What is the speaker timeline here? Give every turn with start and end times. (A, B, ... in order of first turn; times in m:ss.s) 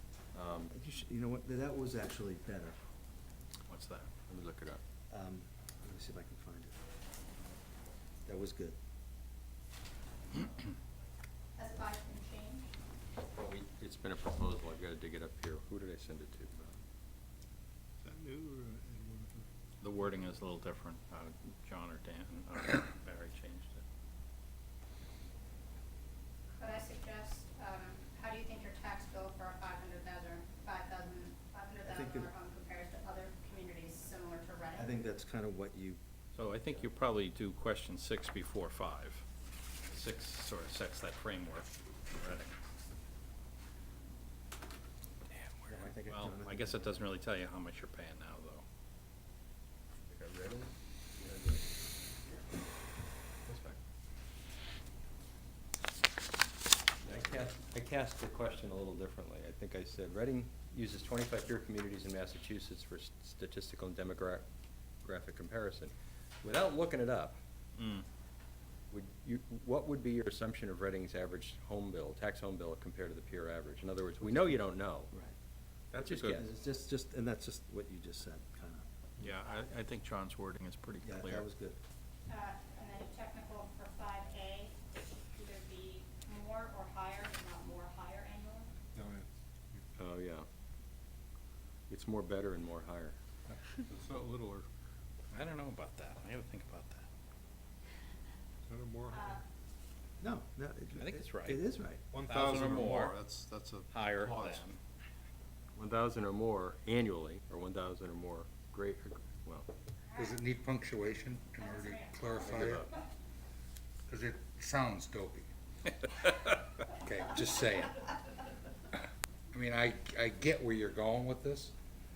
0:00.3-0:00.7 A
0:00.7-0:02.8 B
0:03.7-0:04.1 C
0:04.3-0:04.8 A
0:05.1-0:06.8 B
0:08.2-0:08.8 B
0:11.6-0:12.7 D
0:13.3-0:16.8 A
0:18.0-0:19.4 E
0:19.8-0:23.8 C
0:26.6-0:34.9 D
0:31.8-0:32.3 B
0:34.7-0:36.0 B
0:36.3-0:39.2 C
0:39.9-0:42.5 C
0:45.4-0:48.6 C
0:45.7-0:47.1 B
0:50.1-0:51.7 A
0:53.4-0:53.8 A
0:57.0-1:04.4 A
1:05.0-1:07.4 A
1:07.8-1:08.0 C
1:08.9-1:15.1 A
1:14.3-1:15.3 B
1:15.9-1:16.4 A
1:16.0-1:16.4 C
1:16.1-1:19.3 B
1:19.2-1:21.5 C
1:21.0-1:21.8 B
1:22.3-1:24.8 D
1:25.3-1:28.7 D
1:28.9-1:29.8 E
1:30.0-1:30.5 A
1:31.9-1:33.2 A
1:33.5-1:34.7 E
1:35.3-1:37.1 C
1:38.7-1:39.4 E
1:39.1-1:39.4 D
1:40.2-1:42.0 B
1:40.9-1:41.6 C
1:42.1-1:44.6 E
1:42.1-1:43.2 C
1:43.9-1:44.8 C
1:45.8-1:49.7 A
1:50.1-1:50.4 D
1:50.1-1:52.9 F
1:51.6-1:53.0 D
1:54.1-1:55.5 F
1:56.9-1:58.0 F
1:59.5-2:01.7 F